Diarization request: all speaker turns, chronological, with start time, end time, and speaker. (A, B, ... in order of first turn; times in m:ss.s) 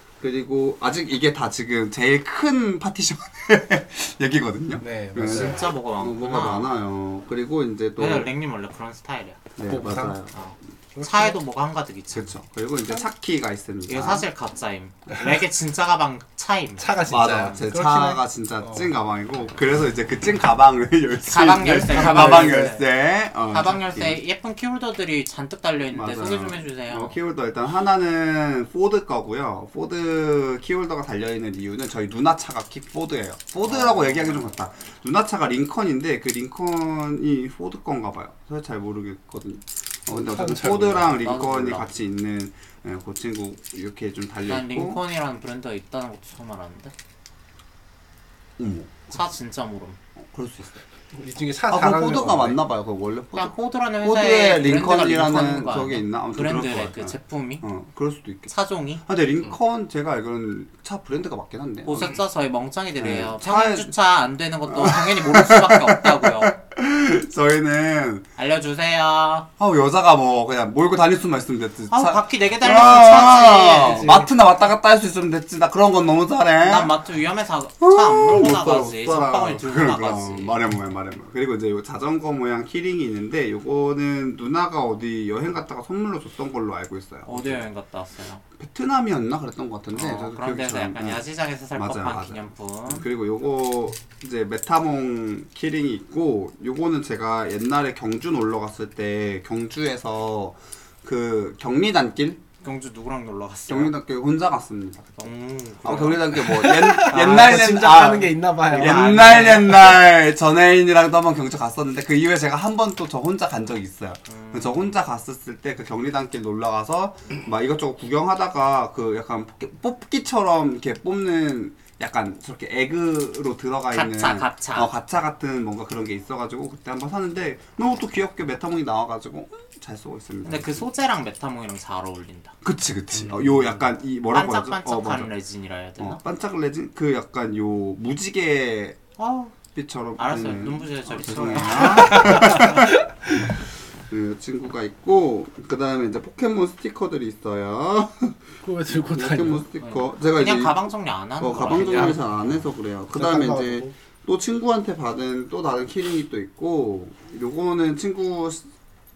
0:00.2-0:08.3 A
0:04.8-0:05.6 B
0:05.2-0:06.7 C
0:08.0-0:09.4 C
0:09.6-0:10.3 A
0:09.7-0:10.2 B
0:10.3-0:12.3 C
0:10.9-0:11.4 B
0:12.1-0:14.3 A
0:13.9-0:17.0 C
0:16.8-0:18.9 B
0:17.1-0:24.2 A
0:21.2-0:22.8 C
0:21.7-0:22.8 B
0:23.5-0:27.2 C
0:25.9-0:45.0 A
0:33.7-0:34.4 C
0:40.1-0:41.2 B
0:41.1-0:41.9 C
0:44.4-0:46.9 C
0:48.6-0:49.2 A
0:49.1-0:50.0 C
0:50.2-0:50.8 A
0:51.1-0:52.6 B
0:51.7-0:58.5 A
0:53.3-0:57.6 C
0:58.5-0:59.0 C
0:59.0-1:02.2 A
1:01.8-1:06.6 C
1:03.0-1:03.9 A
1:04.7-1:08.2 A
1:08.4-1:09.5 C
1:09.6-1:16.9 A
1:11.9-1:14.3 C
1:16.6-1:20.6 C
1:17.8-1:27.6 A
1:27.2-1:28.4 C
1:28.6-1:42.4 A
1:29.9-1:33.0 C
1:42.6-1:43.9 C
1:43.7-1:45.3 A
1:45.2-1:46.5 C
1:45.8-2:10.8 A
1:46.4-1:49.6 B
1:47.1-1:47.5 C
1:48.7-1:49.9 C
1:54.3-1:55.0 C
2:03.9-2:04.9 C
2:10.4-2:12.5 C
2:12.6-2:15.3 A
2:13.1-2:13.8 B
2:14.3-2:16.2 C
2:16.0-2:19.0 A
2:19.2-2:19.5 C
2:19.7-2:23.5 A
2:20.2-2:22.8 C
2:21.9-2:23.5 B
2:24.1-2:30.8 A
2:28.6-2:29.7 B
2:29.8-2:32.6 C
2:31.4-2:38.7 A
2:31.8-2:32.2 B
2:33.1-2:33.9 B